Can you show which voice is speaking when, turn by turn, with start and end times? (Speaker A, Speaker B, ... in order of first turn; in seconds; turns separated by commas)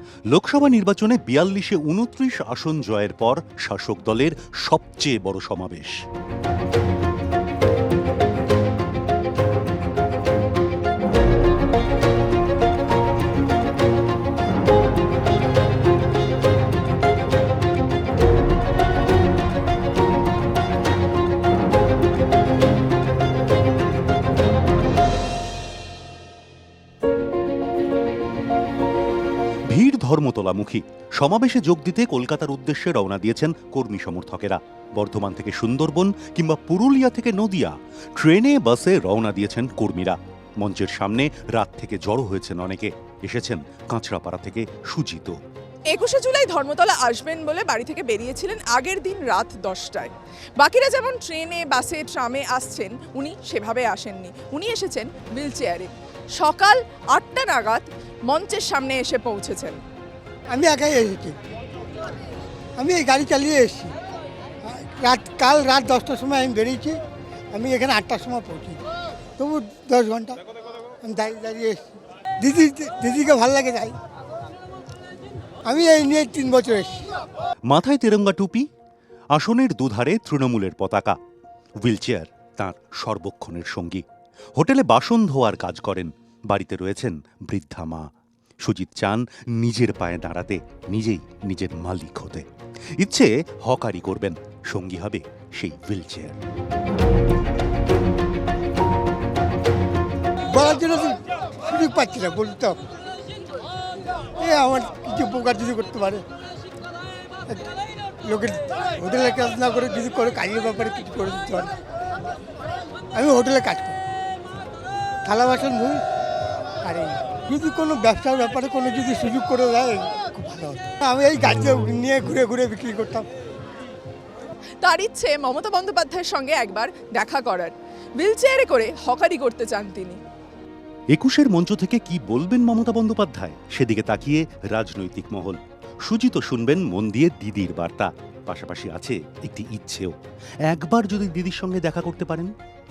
Speaker A: 0.3-6.0, Speaker A: 29.7-45.4, Speaker B: 45.9-59.8, Speaker C: 60.5-61.4, Speaker C: 62.8-63.9, Speaker C: 64.6-67.0, Speaker C: 67.5-68.8, Speaker C: 69.4-70.4, Speaker C: 71.0-71.9, Speaker C: 72.4-74.0, Speaker C: 75.7-77.1, Speaker A: 77.7-78.7, Speaker A: 79.3-81.2, Speaker A: 81.8-84.0, Speaker A: 84.5-92.5, Speaker A: 93.0-96.4, Speaker C: 100.5-102.8, Speaker C: 104.4-106.2, Speaker C: 108.2-111.7, Speaker C: 113.1-114.0, Speaker C: 115.2-116.0, Speaker C: 116.8-123.3, Speaker B: 124.8-130.2, Speaker A: 131.1-140.2, Speaker A: 140.7-142.5